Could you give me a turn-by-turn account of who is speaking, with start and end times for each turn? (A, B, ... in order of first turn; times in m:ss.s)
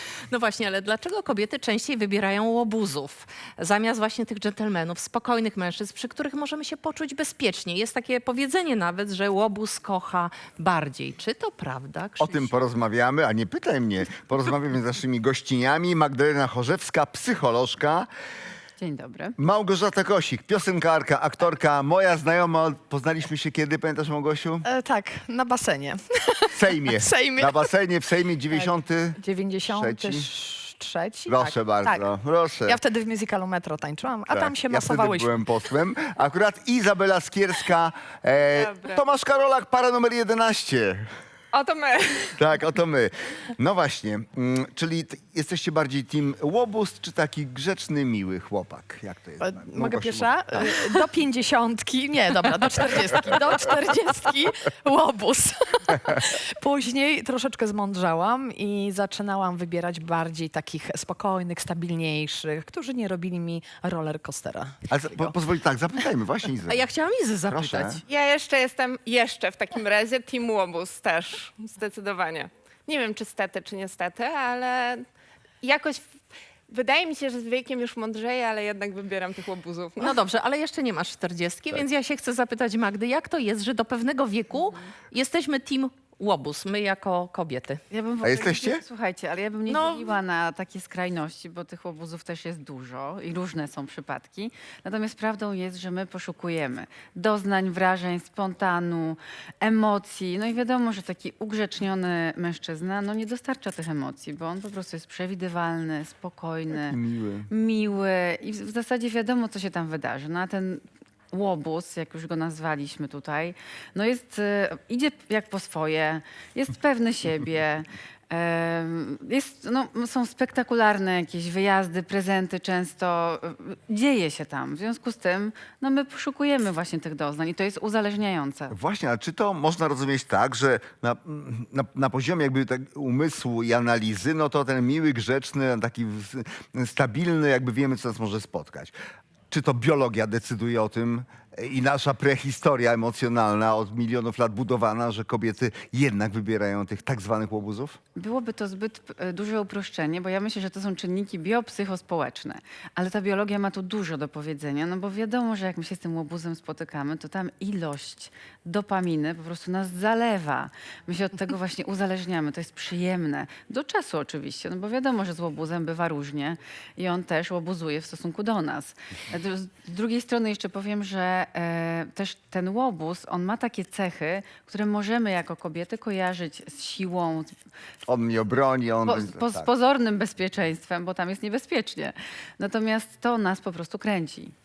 0:00.3-0:12.5 A
0:12.2-0:18.1 B
0:18.8-0:19.3 C
0:19.4-0:24.6 B
0:24.6-0:27.7 D
0:26.5-0:30.3 B
0:28.5-0:32.1 D
0:31.3-0:32.8 B
0:32.6-0:35.3 D
0:34.3-0:41.1 B
0:38.5-0:39.0 E
0:41.5-0:42.4 E
0:42.4-0:50.7 B
0:49.4-1:05.3 D
1:04.9-1:06.9 B
1:06.7-1:08.0 A
1:07.5-1:08.0 B
1:08.1-1:15.0 E
1:15.6-1:16.0 E
1:16.7-1:20.1 E
1:20.0-1:27.8 A
1:27.9-1:47.0 C
1:28.2-1:28.8 B
1:29.7-1:30.1 A
1:46.8-1:47.5 B
1:47.5-2:08.7 C
2:08.7-2:18.9 B
2:19.5-2:28.0 B
2:28.2-2:57.5 C
2:58.1-2:59.7 B
2:59.0-3:04.5 C